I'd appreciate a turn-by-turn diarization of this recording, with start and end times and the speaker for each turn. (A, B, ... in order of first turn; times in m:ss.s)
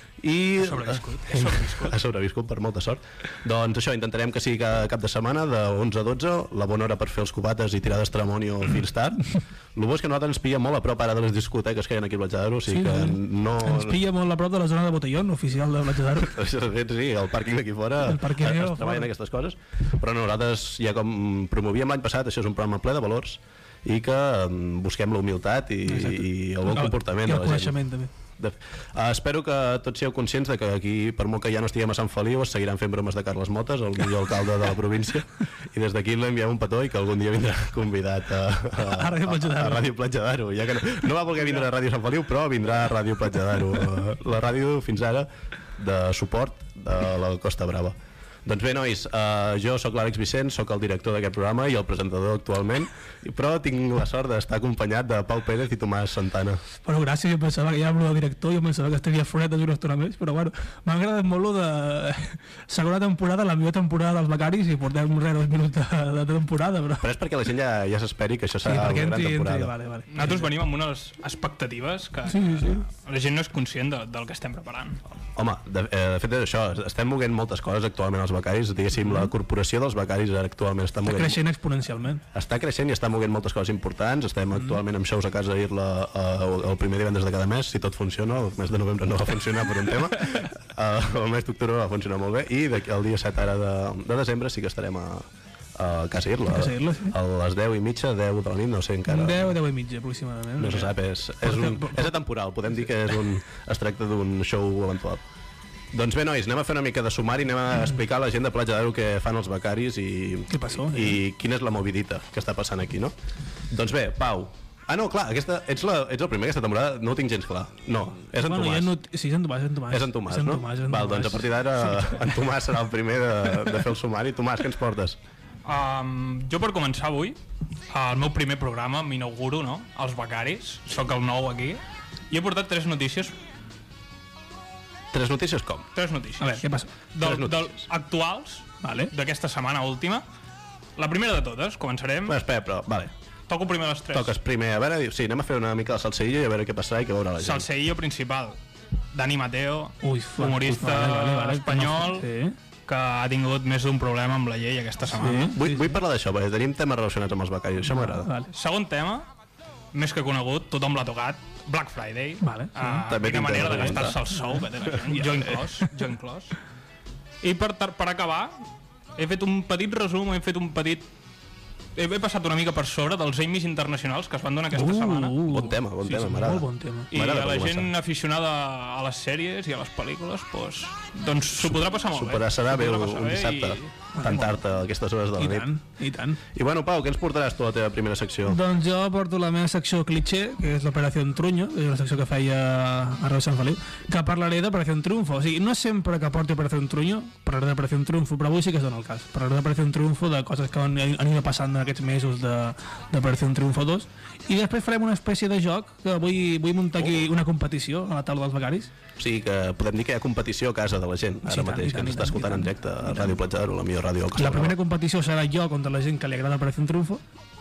0:00.2-0:14.0 A
0:00.6-0:02.0 B
0:12.7-0:16.4 C
0:16.1-0:27.8 A
0:18.0-0:19.1 C
0:25.8-0:28.1 C
0:28.4-0:56.6 A
0:38.8-0:39.9 C
0:56.8-1:07.1 C
1:07.0-1:09.7 A
1:08.6-1:10.5 C
1:10.1-1:15.0 B
1:12.3-1:12.8 C
1:15.4-1:21.4 A
1:21.0-1:22.2 C
1:22.3-1:39.5 A
1:36.5-1:37.1 C
1:39.1-1:42.1 C
1:40.6-1:45.2 A
1:45.9-1:53.1 A
1:50.5-1:51.2 C
1:53.7-1:59.0 A
1:58.4-2:02.2 C
1:59.9-2:05.2 A
2:05.6-2:07.4 B
2:07.9-2:13.4 B
2:15.1-2:15.9 A
2:15.9-2:20.2 B
2:16.4-2:16.9 C
2:17.2-2:17.8 A
2:18.8-2:19.1 C
2:21.0-2:22.4 B
2:22.3-2:23.1 A
2:23.5-2:24.3 B
2:24.1-2:27.7 A
2:27.4-2:28.6 B
2:29.1-2:32.3 B
2:30.0-2:32.6 C
2:32.9-2:35.6 B
2:35.2-2:35.9 C
2:35.5-2:38.3 A
2:37.9-2:38.5 C
2:38.5-2:39.3 B
2:39.9-2:46.6 B
2:42.4-2:43.0 C
2:43.0-2:44.2 A
2:45.1-2:45.4 C
2:47.4-2:48.6 B
2:49.2-2:51.1 B
2:52.0-2:55.4 B
2:54.7-2:57.1 C
2:55.4-2:57.9 A
2:57.1-3:04.5 B
3:01.6-3:05.7 A
3:04.2-3:04.5 C
3:05.4-3:06.4 C
3:06.5-3:08.6 A
3:08.4-3:28.9 C
3:29.2-3:34.7 A
3:31.4-3:33.3 C
3:34.4-3:37.2 C